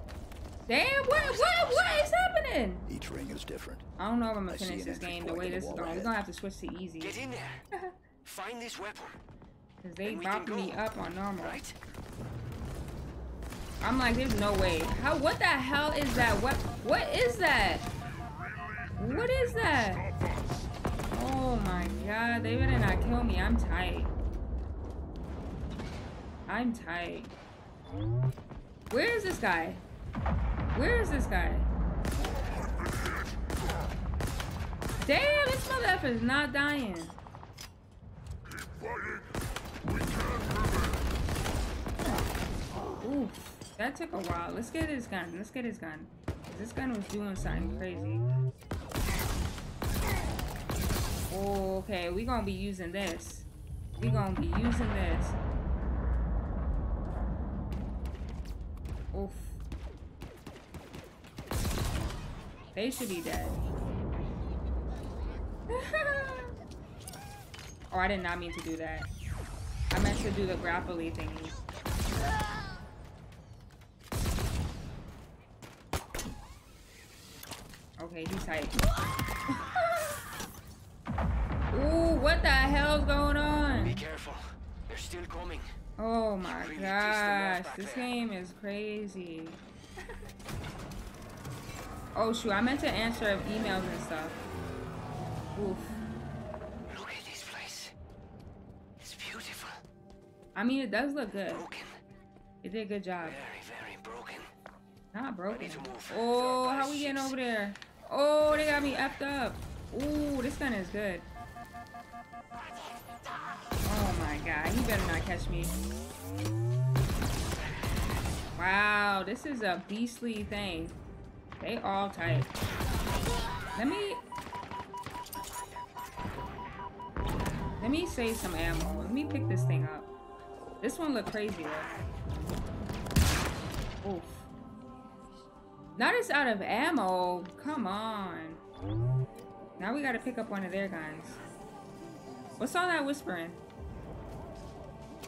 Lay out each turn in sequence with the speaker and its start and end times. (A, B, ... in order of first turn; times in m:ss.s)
0:00.7-0:02.9 A
0:01.2-0:02.1 B
0:02.9-0:03.9 C
0:04.0-0:07.2 A
0:04.5-0:06.1 C
0:07.0-0:07.6 B
0:08.2-0:09.2 B
0:09.8-0:11.6 A
0:10.0-0:10.8 B
0:11.4-0:11.7 B
0:13.8-0:17.9 A
0:19.0-0:20.1 A
0:21.1-0:24.1 A
0:26.5-0:27.3 A
0:28.9-0:29.8 A
0:30.7-0:31.7 A
0:35.0-0:37.2 A
0:43.0-0:48.2 A
0:51.3-0:53.5 A
0:54.0-0:55.4 A
0:59.1-0:59.6 A
1:02.7-1:03.6 A
1:05.7-1:06.5 A
1:07.9-1:09.1 A
1:09.9-1:11.5 A
1:18.0-1:18.8 A
1:19.5-1:19.7 A
1:21.7-1:24.0 A
1:23.8-1:25.7 B
1:26.0-1:29.6 A
1:26.5-1:28.1 B
1:32.1-1:34.4 A
1:35.6-1:36.0 A
1:36.9-1:37.9 B
1:39.0-1:39.8 B
1:40.5-1:41.6 A
1:41.5-1:41.9 B
1:42.6-1:43.4 A
1:43.2-1:44.5 B
1:45.1-1:51.3 A
1:45.5-1:47.4 B
1:53.8-1:55.7 A
1:58.6-2:01.0 A
2:01.6-2:02.5 A
2:03.7-2:04.2 A
2:07.8-2:10.1 A
2:10.8-2:11.9 A
2:14.0-2:14.4 A
2:16.0-2:18.6 A
2:19.8-2:21.4 A
2:22.6-2:23.6 A